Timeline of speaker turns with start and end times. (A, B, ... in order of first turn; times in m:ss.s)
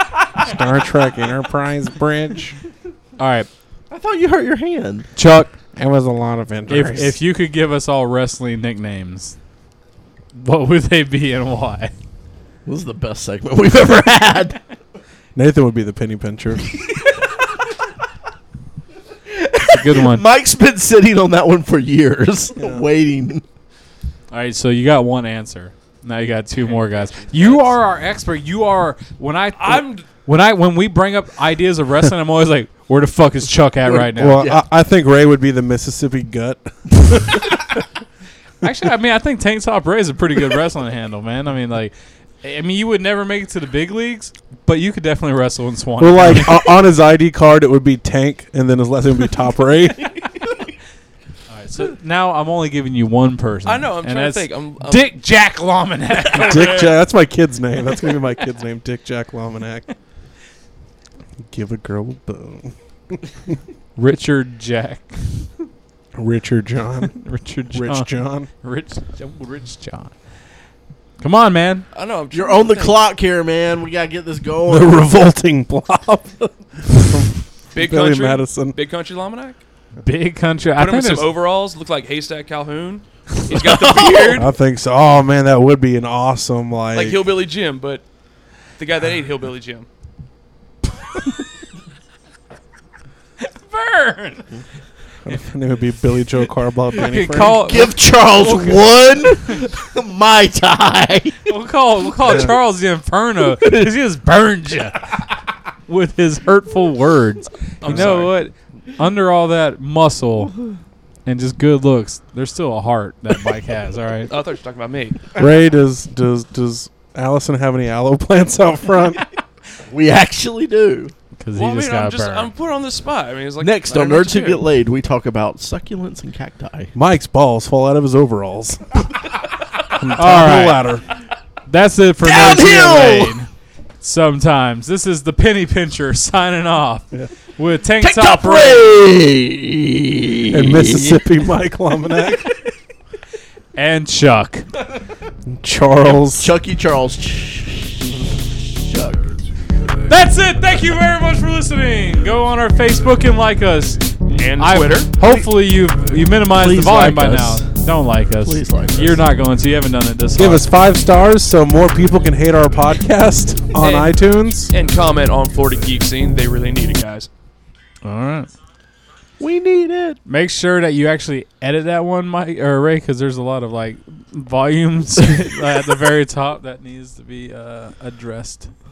0:00.3-0:02.6 A
0:03.2-0:03.5 B
0:03.9-0:05.1 C
0:05.2-0:05.5 B
0:05.7-0:07.2 A
0:06.7-0:09.4 B
0:10.3-0:11.9 B
0:12.6-0:14.6 C
0:15.3-0:16.7 A
0:19.3-0:23.4 C
0:19.7-0:20.2 B
0:22.6-0:22.9 A
0:24.3-0:34.4 B
0:26.6-0:27.7 D
0:29.6-0:30.0 D
0:33.8-0:34.6 C
0:34.2-0:37.8 A
0:38.6-0:46.6 B
0:46.0-0:50.3 A
0:51.5-0:57.0 B
0:53.6-0:55.1 D
0:56.3-0:59.9 A
1:01.4-1:03.5 A
1:04.0-1:05.5 B
1:06.1-1:07.2 A
1:07.0-1:10.1 B
1:07.7-1:08.5 A
1:11.2-1:11.8 B
1:11.9-1:13.0 D
1:12.3-1:15.1 C
1:14.7-1:18.8 A
1:17.7-1:19.6 D
1:20.0-1:21.3 B
1:20.8-1:24.5 D
1:23.5-1:24.4 C
1:24.3-1:27.2 A
1:26.9-1:28.0 D
1:28.8-1:29.9 D
1:33.4-1:34.5 B
1:35.2-1:37.6 A
1:36.9-1:39.2 B
1:37.3-1:41.5 C
1:41.4-1:45.3 B
1:42.2-1:42.5 A
1:43.6-1:43.9 C
1:45.8-1:50.5 B
1:47.8-1:48.4 D
1:47.8-1:48.1 A
1:51.2-1:54.3 B
1:54.3-1:55.2 D
1:55.4-1:59.2 A
1:59.9-2:01.1 C
2:01.4-2:02.5 B
2:01.5-2:04.6 D
2:03.6-2:06.9 C
2:06.9-2:09.0 A
2:09.9-2:11.0 A
2:10.2-2:10.8 B
2:11.7-2:13.5 B
2:12.2-2:13.3 C
2:14.0-2:18.8 B
2:18.0-2:21.2 C
2:20.5-2:22.5 A
2:23.7-2:24.6 B
2:25.4-2:26.5 A
2:26.2-2:29.3 C
2:30.1-2:40.6 B
2:34.3-2:35.1 D
2:36.5-2:37.7 C
2:38.4-2:39.2 C
2:40.4-2:44.7 A
2:43.8-2:47.3 D
2:48.0-2:48.5 B
2:49.4-2:50.2 C
2:50.2-2:58.7 B